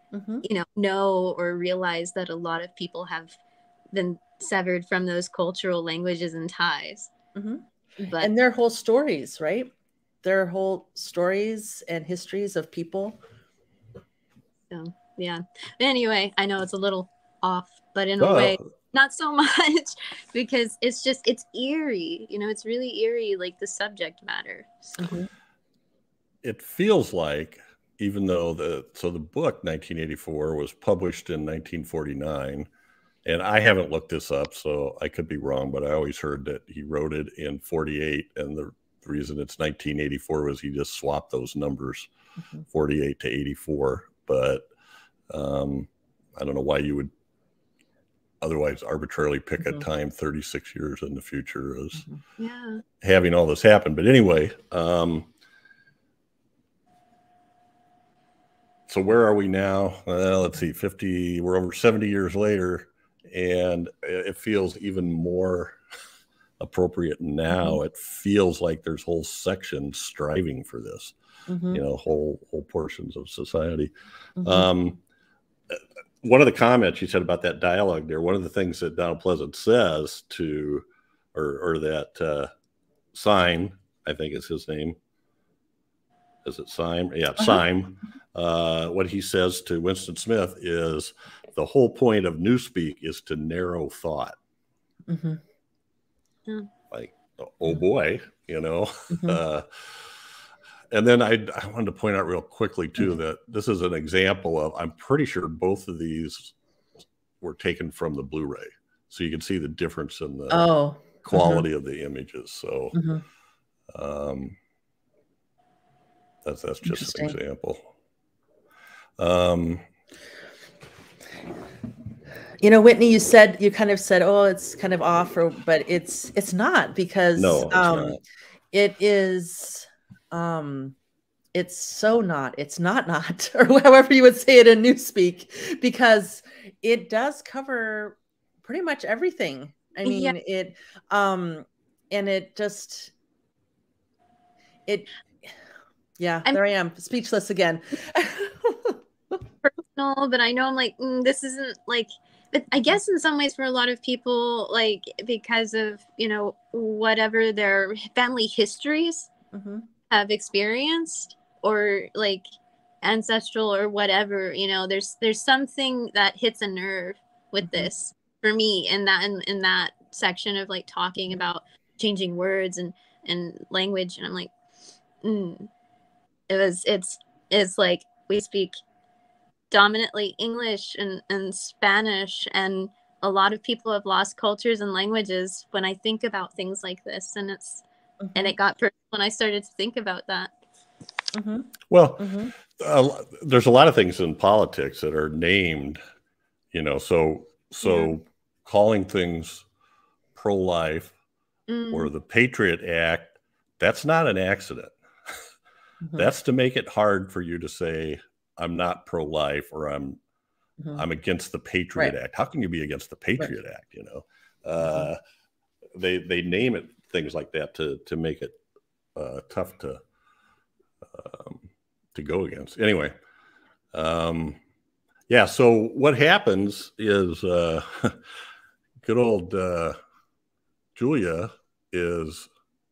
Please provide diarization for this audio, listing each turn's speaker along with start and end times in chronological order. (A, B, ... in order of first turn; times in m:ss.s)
0:00.1-0:00.4 A
0:00.4-0:03.4 B
0:03.9-0:07.1 B
0:07.4-0:09.7 A
0:08.0-0:08.3 B
0:10.2-0:13.2 A
0:14.7-0:25.1 B
0:18.2-0:18.7 C
0:25.0-0:25.3 A
0:26.4-0:32.7 C
0:33.2-0:42.1 C
0:42.7-0:44.7 C
0:45.3-0:47.1 C
0:48.4-0:52.0 C
0:52.4-0:52.8 B
0:53.0-0:55.3 C
0:58.9-1:05.8 C
1:06.6-1:11.1 C
1:11.5-1:11.8 A
1:11.7-1:13.9 C
1:14.4-1:14.7 A
1:14.4-1:15.0 C
1:15.7-1:22.5 C
1:23.1-1:25.0 C
1:26.4-1:34.4 C
1:35.1-1:35.4 A
1:36.9-1:40.1 C
1:39.1-1:39.4 A
1:40.9-1:46.5 C
1:47.4-1:50.7 C
1:50.5-1:51.6 A
1:51.2-1:53.0 C
1:52.9-1:53.2 A
1:53.9-1:54.6 C
1:56.4-1:57.9 C
1:56.8-1:57.4 A
1:59.2-1:59.8 C
2:02.6-2:08.2 A
2:07.4-2:08.2 C
2:08.7-2:11.0 A
2:11.5-2:23.1 A
2:20.0-2:20.3 B
2:24.9-2:25.5 A
2:26.2-2:29.4 A
2:29.6-2:39.3 B
2:39.5-2:39.9 A
2:40.1-2:42.4 B
2:43.0-2:54.5 B
2:47.6-2:47.9 A
2:55.2-2:55.7 B
2:56.5-2:58.8 B
2:59.7-3:07.8 B
3:08.2-3:08.5 A
3:08.3-3:10.5 B
3:11.3-3:11.7 A
3:11.9-3:16.0 C
3:12.2-3:12.5 A
3:16.7-3:19.7 C
3:20.4-3:21.1 C
3:21.7-3:22.1 B
3:21.9-3:24.9 C
3:26.2-3:30.2 C
3:30.9-3:35.2 C
3:36.0-3:38.6 C
3:39.2-3:40.0 C
3:41.1-3:43.2 C
3:43.9-3:44.6 C
3:45.3-3:48.2 C
3:49.0-3:50.0 C
3:51.0-3:52.5 C